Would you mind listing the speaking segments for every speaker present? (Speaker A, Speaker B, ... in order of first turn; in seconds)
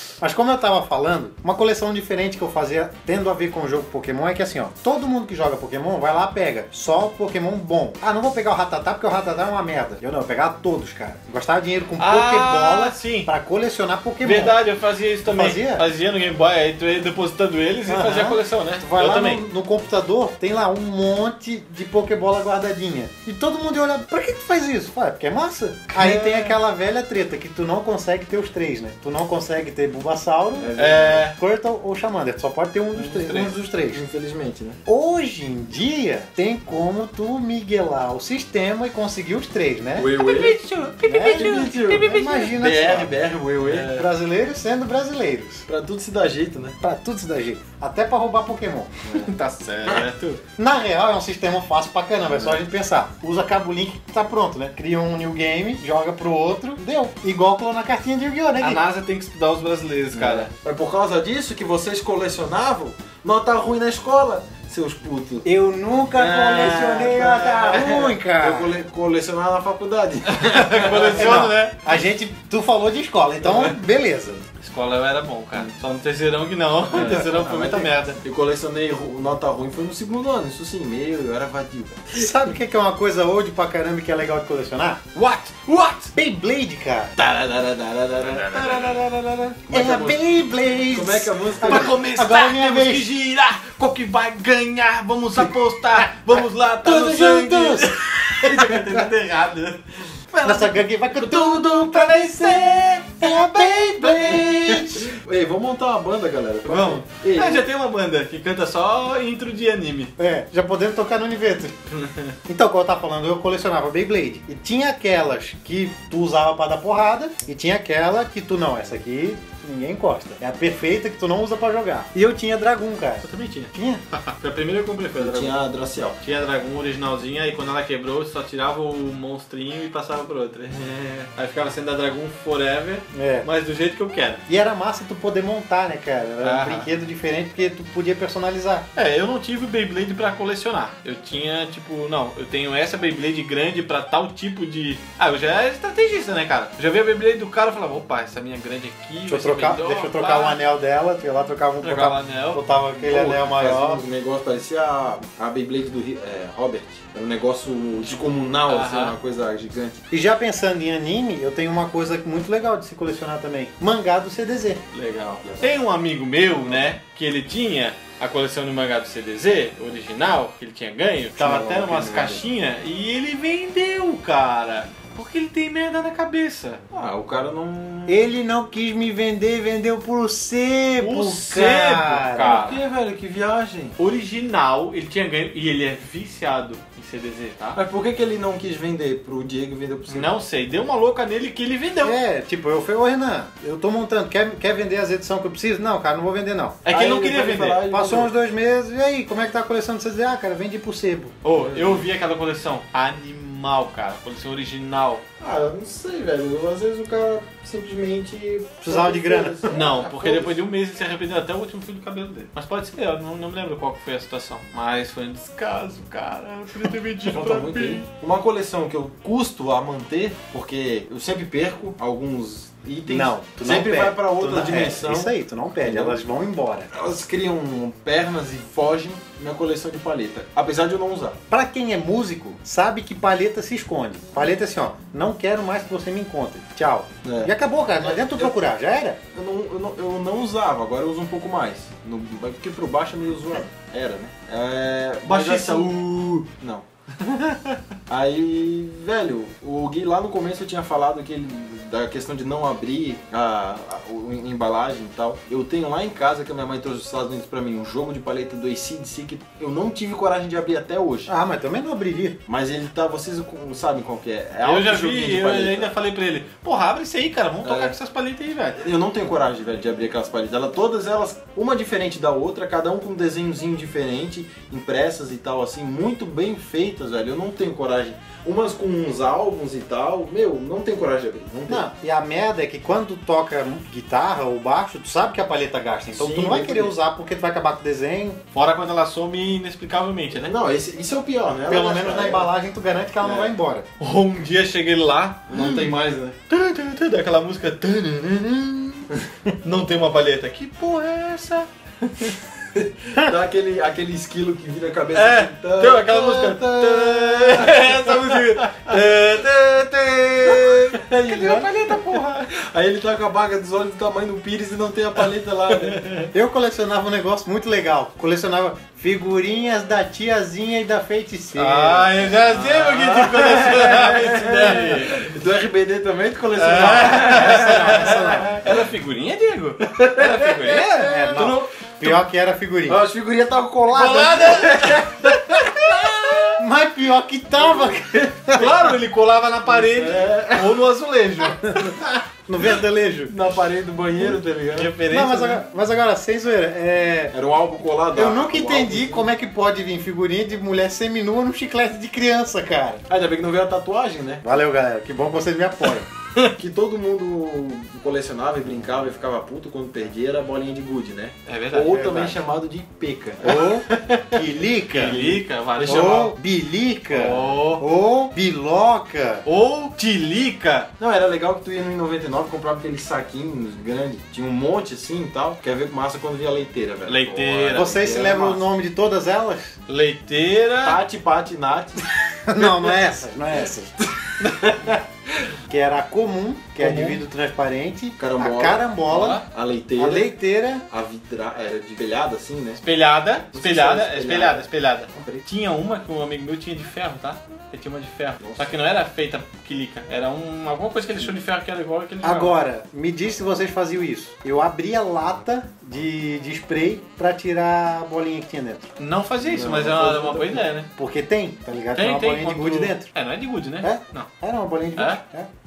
Speaker A: 0.2-14.6, 15.2-15.8, 17.9-30.7, 31.2-34.0, 34.9-40.1, 41.0-45.6, 46.8-49.2, 50.6-58.8, 65.4-68.7, 71.0-74.4, 82.1-85.0, 86.1-87.2, 89.7-93.1, 96.8-99.1, 100.4-105.1, 110.2-111.8, 112.5-124.0, 133.1-133.5, 134.5-138.9, 149.3-154.0, 160.1-164.8, 178.1-182.7, 192.0-196.8, 197.9-201.4, 208.8-209.6, 223.1-226.9, 231.5-239.2, 261.3-262.4, 281.7-288.4, 291.7-293.9, 316.3-322.4, 327.2-328.5, 331.0-333.0, 336.6-338.8, 341.6-341.9, 342.5-343.3, 345.1-347.3, 348.1-353.0, 354.4-356.1, 361.9-362.4, 363.4-369.4, 377.7-379.8, 382.4-383.9, 385.7-389.4, 390.0-390.8, 402.2-408.9, 410.9-413.1, 413.8-415.5
Speaker B: 12.0-13.3, 14.2-19.4, 30.8-31.4, 33.0-33.5, 40.1-42.5, 49.2-50.4, 58.6-60.5, 70.3-71.9, 74.6-78.2, 85.1-86.1, 88.0-89.6, 91.6-104.4, 106.6-110.1, 111.9-112.3, 123.2-125.5, 126.2-134.4, 136.4-136.9, 138.9-150.6, 151.8-152.6, 158.0-159.2, 164.9-176.8, 181.0-182.8, 184.0-187.8, 190.1-192.2, 196.8-197.8, 201.4-205.2, 209.7-218.1, 245.2-246.5, 247.2-247.8, 264.6-268.9, 288.5-290.5, 294.0-295.7, 296.5-299.1, 299.6-302.4, 305.1-312.5, 315.8-316.3, 321.5-325.4, 326.6-331.7, 333.9-336.6, 338.5-342.1, 344.7-345.6, 361.4-362.1, 363.9-364.4, 364.9-366.3, 367.1-367.8, 369.4-370.9, 377.1-378.6, 379.9-381.0, 384.4-385.0, 386.8-387.2, 389.1-389.4, 392.8-402.6, 409.0-410.9, 411.9-414.3, 415.0-415.2
Speaker C: 26.0-26.5, 30.6-31.2, 33.1-34.8, 40.0-40.6, 41.1-44.1, 45.7-46.8, 60.1-65.5, 66.1-71.4, 76.9-82.2, 87.2-88.9, 89.6-90.2, 90.9-92.0, 104.0-107.7, 125.2-126.2, 153.0-160.0, 165.4-165.8, 171.3-172.4, 176.9-178.2, 182.4-184.0, 187.7-190.3, 196.9-198.3, 201.5-202.0, 205.4-210.6, 217.2-226.2, 226.9-231.4, 237.2-238.6, 239.3-246.8, 248.1-261.3, 262.5-265.9, 267.6-267.9, 268.8-281.9, 286.1-286.9, 290.4-292.5, 293.2-293.5, 295.5-296.4, 302.7-309.3, 310.4-316.0, 322.4-328.9, 329.8-331.5, 332.9-336.4, 337.6-338.3, 339.7-340.8, 343.3-344.9, 347.3-349.3, 353.1-354.5, 356.5-363.6, 365.8-366.3, 371.0-378.6, 380.8-382.0, 384.0-384.9, 388.2-390.3, 390.9-392.8, 393.5-395.4, 398.4-398.7, 409.5-410.6